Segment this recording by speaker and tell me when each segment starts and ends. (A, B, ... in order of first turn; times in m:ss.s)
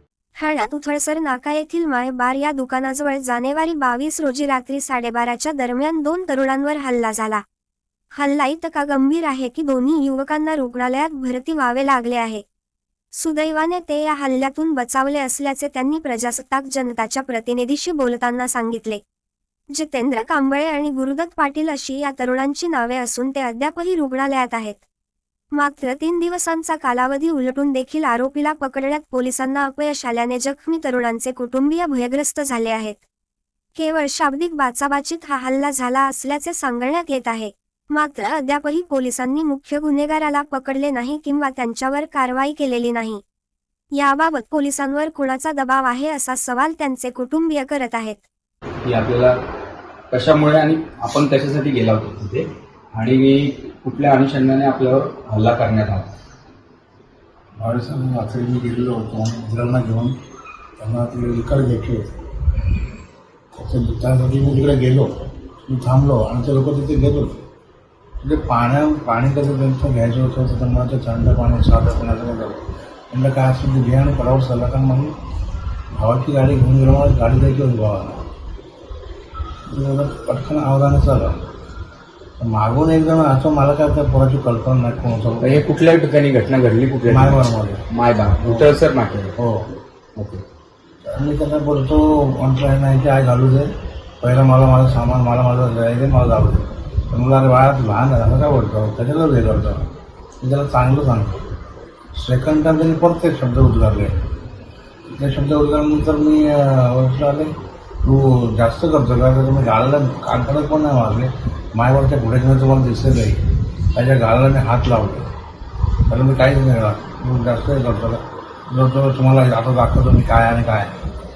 0:00.4-0:07.4 A
0:08.2-0:12.4 A
0:13.1-0:19.0 A
0:19.7-0:24.8 A
0:25.5-0:33.0 A
0:33.8-0:43.2 A
0:43.9-0:48.2 A
0:48.8-0:49.4 B
0:50.1-0:56.1 B
0:57.6-1:00.2 C
1:00.8-1:02.1 C
1:03.6-1:05.1 C
1:05.7-1:07.4 C
1:08.2-1:15.1 C
1:16.0-1:18.2 C
1:19.7-1:21.4 C
1:22.4-1:25.6 C
1:25.4-1:29.3 B
1:27.1-1:27.8 C
1:28.4-1:28.7 C
1:29.4-1:29.7 C
1:30.2-1:30.4 B
1:31.0-1:39.9 C
1:40.4-1:41.4 C
1:42.1-1:44.2 C
1:45.1-1:47.5 C
1:48.0-1:53.4 C
1:53.9-1:55.3 C
1:56.1-2:01.0 C